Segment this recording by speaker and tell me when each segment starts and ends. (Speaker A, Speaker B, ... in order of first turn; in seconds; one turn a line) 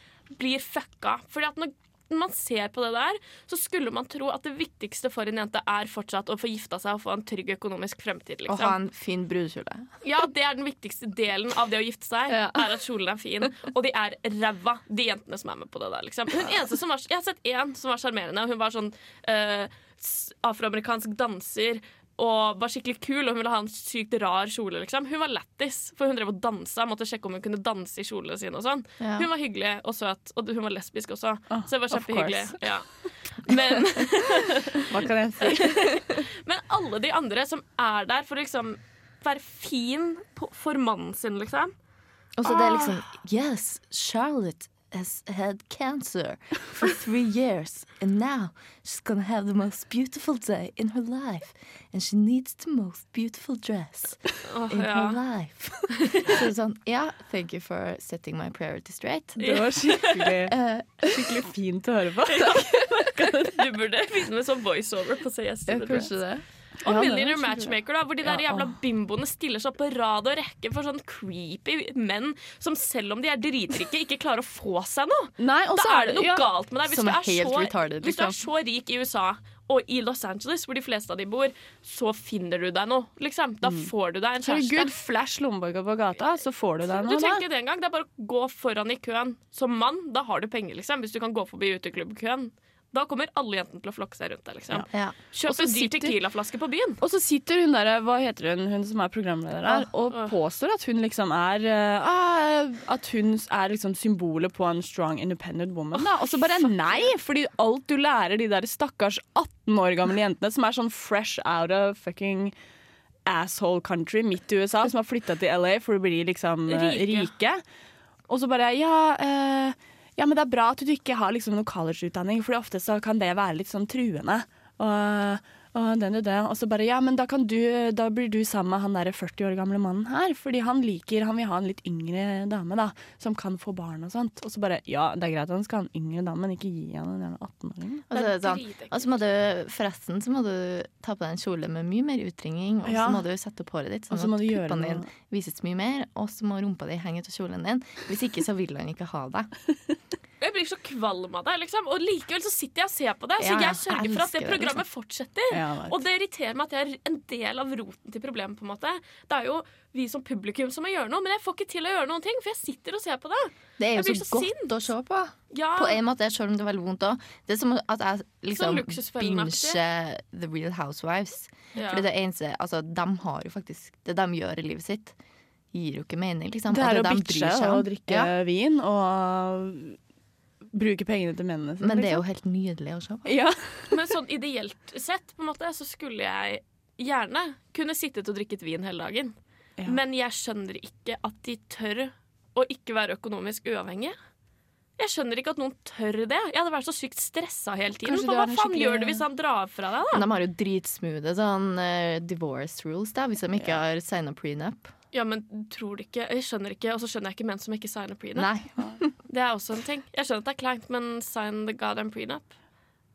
Speaker A: 0.3-8.8
Speaker B: 8.4-9.9
Speaker A: 10.0-34.9
Speaker B: 29.0-29.3
Speaker C: 31.5-32.8
Speaker C: 34.9-35.8
Speaker A: 35.6-41.7
Speaker B: 42.4-59.6
Speaker A: 42.4-43.0
Speaker A: 54.4-55.2
Speaker A: 59.4-60.1
Speaker C: 59.4-60.5
Speaker B: 60.5-61.4
Speaker C: 61.1-63.5
Speaker A: 62.3-66.2
Speaker B: 65.7-67.7
Speaker A: 66.8-84.9
Speaker C: 68.3-68.6
Speaker C: 75.4-76.5
Speaker B: 76.8-78.4
Speaker C: 83.6-83.9
Speaker C: 84.4-87.4
Speaker A: 86.9-94.9
Speaker C: 94.7-96.2
Speaker B: 94.9-95.2
Speaker A: 95.4-97.0
Speaker C: 97.0-112.5
Speaker A: 106.0-107.1
Speaker C: 113.2-117.6
Speaker A: 116.7-117.3
Speaker C: 118.3-138.1
Speaker B: 138.1-149.5
Speaker A: 138.1-139.2
Speaker C: 142.8-143.2
Speaker C: 144.1-145.1
Speaker A: 150.4-164.7
Speaker B: 153.4-154.8
Speaker C: 155.5-156.0
Speaker B: 163.8-175.2
Speaker A: 165.5-166.0
Speaker A: 168.5-169.8
Speaker A: 171.7-172.1
Speaker B: 175.7-178.3
Speaker C: 176.7-180.0
Speaker C: 180.7-182.2
Speaker B: 181.8-183.3
Speaker C: 183.2-183.9
Speaker A: 183.9-194.2
Speaker A: 195.0-200.3
Speaker C: 198.0-199.2
Speaker B: 200.1-204.9
Speaker C: 203.6-203.8
Speaker A: 205.1-208.5
Speaker B: 208.3-209.1
Speaker A: 209.2-212.5